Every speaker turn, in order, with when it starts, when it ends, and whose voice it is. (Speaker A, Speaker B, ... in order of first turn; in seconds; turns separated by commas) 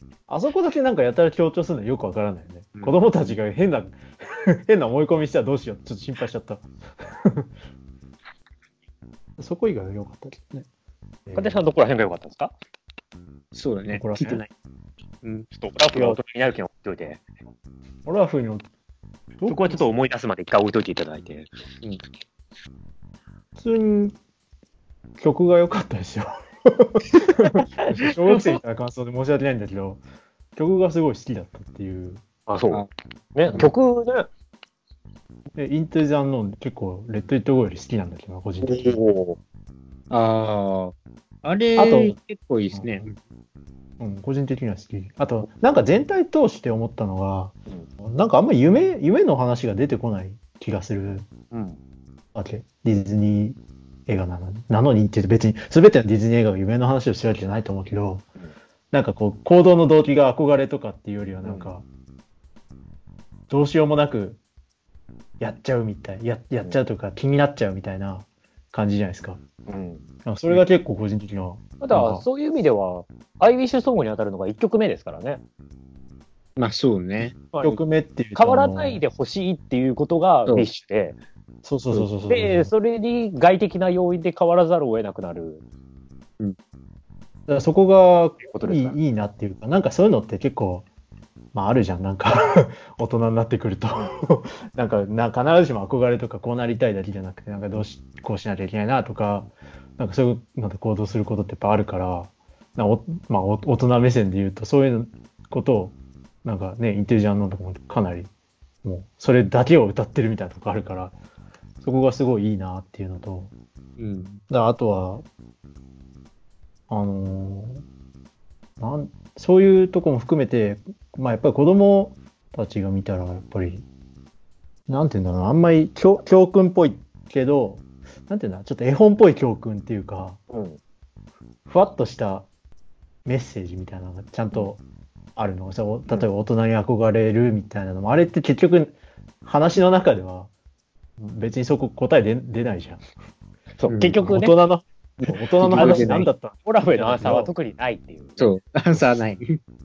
Speaker A: 0.3-7.5, Speaker A: 9.4-10.7, Speaker A: 11.3-11.6, Speaker B: 11.3-12.5, Speaker C: 13.5-14.5, Speaker A: 13.9-14.4, Speaker C: 15.2-15.5, Speaker B: 15.5-17.2, Speaker A: 18.1-18.6, Speaker A: 19.4-19.8, Speaker B: 19.5-21.5, Speaker A: 23.6-24.2, Speaker A: 25.2-30.0, Speaker A: 30.6-32.2, Speaker B: 32.5-34.3, Speaker A: 35.6-39.0, Speaker B: 38.6-39.4, Speaker C: 40.1-43.1, Speaker A: 41.8-42.1, Speaker A: 42.7-43.0, Speaker A: 44.0-51.3, Speaker B: 51.5-51.8, Speaker A: 52.4-58.2, Speaker A: 58.9-61.9, Speaker B: 61.4-61.7, Speaker A: 63.5-64.4, Speaker A: 65.4-69.4, Speaker B: 69.7-70.1, Speaker A: 70.2-72.2, Speaker B: 71.8-75.4, Speaker C: 76.6-77.4, Speaker B: 77.5-77.8, Speaker A: 77.6-79.0, Speaker B: 78.3-81.2, Speaker A: 81.6-82.7, Speaker B: 82.3-85.6, Speaker A: 87.5-90.9, Speaker B: 88.4-89.0, Speaker A: 91.5-108.3, Speaker A: 108.8-111.2, Speaker A: 111.8-113.5, Speaker C: 114.0-114.4, Speaker A: 114.5-115.2, Speaker A: 116.9-117.8, Speaker A: 118.8-123.8, Speaker A: 124.9-130.4, Speaker B: 130.5-130.8, Speaker A: 131.7-132.5, Speaker A: 133.2-134.8, Speaker A: 135.4-140.5, Speaker A: 141.2-143.0, Speaker B: 143.8-144.6, Speaker C: 143.9-144.2, Speaker A: 144.2-147.5, Speaker C: 145.2-146.3, Speaker B: 145.8-148.5, Speaker C: 148.4-149.6